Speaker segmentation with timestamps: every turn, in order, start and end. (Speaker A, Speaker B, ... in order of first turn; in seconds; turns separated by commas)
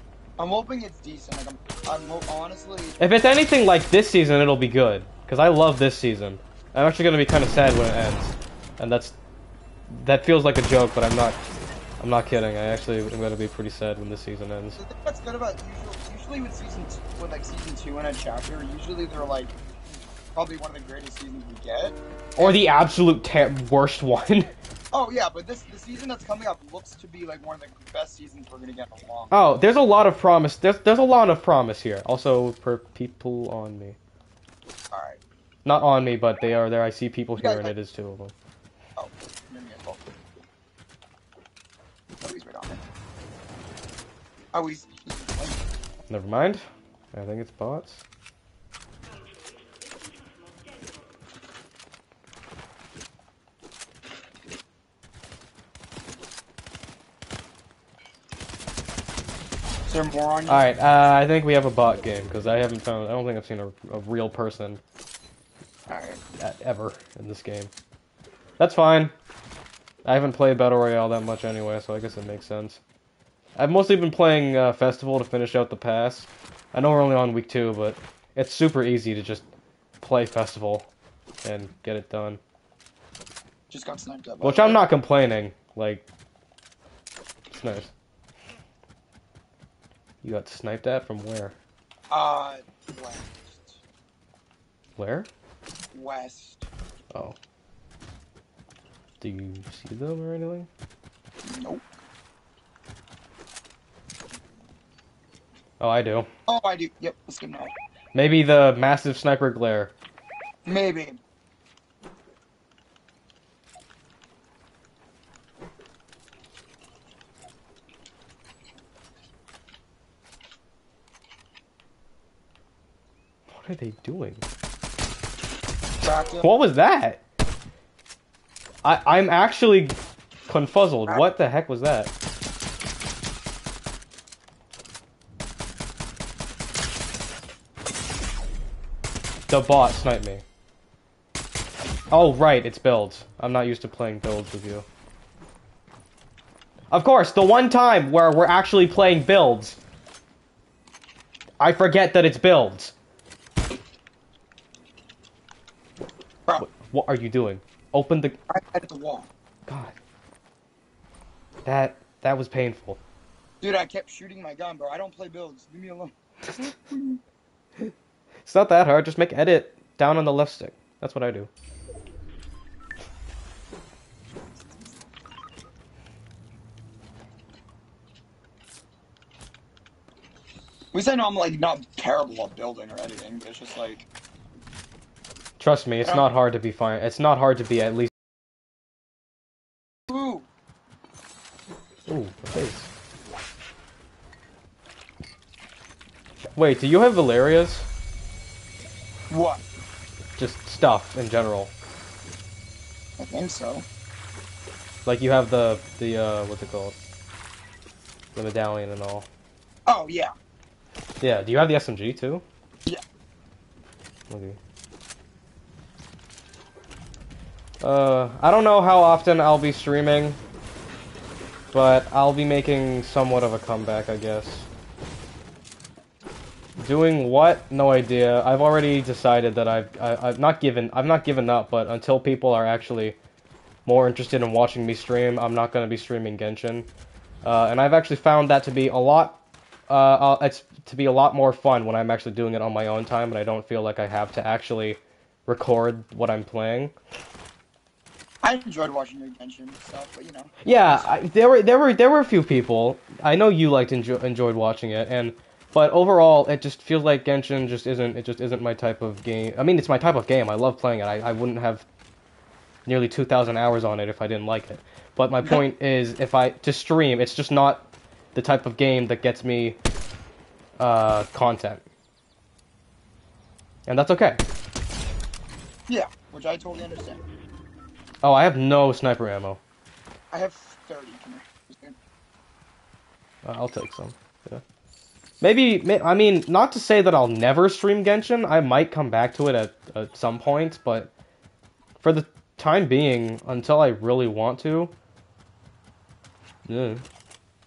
Speaker A: 0.4-3.0, Speaker B: 3.0-9.2, Speaker B: 9.9-11.4, Speaker B: 12.0-14.8, Speaker A: 14.8-19.5, Speaker A: 20.3-22.6, Speaker B: 22.4-24.5, Speaker A: 24.9-29.4, Speaker B: 29.3-34.0, Speaker A: 34.9-35.2, Speaker B: 35.6-38.3, Speaker A: 37.4-37.7, Speaker A: 39.0-40.0, Speaker A: 42.2-42.8, Speaker A: 44.5-45.6, Speaker B: 46.1-48.0, Speaker A: 59.9-60.7, Speaker B: 60.5-64.8, Speaker A: 65.9-66.2, Speaker B: 66.4-67.7, Speaker B: 68.6-69.1, Speaker B: 70.0-72.8, Speaker B: 73.6-79.5, Speaker B: 80.0-80.9, Speaker B: 81.4-82.4, Speaker A: 83.7-84.8, Speaker B: 84.4-86.0, Speaker B: 87.5-87.9, Speaker B: 90.2-91.5, Speaker A: 92.1-93.8, Speaker B: 95.0-95.3, Speaker A: 95.9-96.7, Speaker B: 99.2-100.7, Speaker A: 101.4-101.8, Speaker B: 105.8-106.3, Speaker A: 106.5-107.7, Speaker B: 108.1-109.9, Speaker A: 110.7-111.2, Speaker B: 123.5-124.4, Speaker A: 126.0-126.5, Speaker B: 126.4-127.2, Speaker B: 128.8-130.0, Speaker B: 130.5-132.1, Speaker B: 139.5-140.4, Speaker B: 142.1-144.8, Speaker B: 146.9-149.8, Speaker B: 151.6-152.9, Speaker B: 156.6-158.4, Speaker A: 158.5-159.3, Speaker B: 159.7-159.9, Speaker B: 161.7-163.0, Speaker A: 163.6-167.2, Speaker B: 168.5-171.5, Speaker A: 180.9-184.1, Speaker B: 185.6-188.1, Speaker A: 190.1-190.5, Speaker B: 192.1-192.9, Speaker B: 196.6-197.9, Speaker A: 199.3-199.6, Speaker B: 200.4-201.7, Speaker A: 203.2-203.8, Speaker B: 205.1-207.0, Speaker B: 208.3-209.3, Speaker A: 209.9-210.3, Speaker B: 211.2-212.4, Speaker B: 214.3-214.6, Speaker B: 217.8-220.4, Speaker B: 221.7-224.7, Speaker B: 226.8-233.2, Speaker B: 233.8-236.9, Speaker B: 237.4-246.9, Speaker A: 248.4-251.1, Speaker B: 250.6-261.9, Speaker B: 262.9-269.8, Speaker B: 270.8-271.9, Speaker B: 273.9-274.4, Speaker A: 275.9-277.2, Speaker B: 278.2-279.6, Speaker A: 280.3-282.0, Speaker B: 283.4-284.6, Speaker B: 285.4-291.1, Speaker B: 292.0-294.9, Speaker B: 296.7-297.0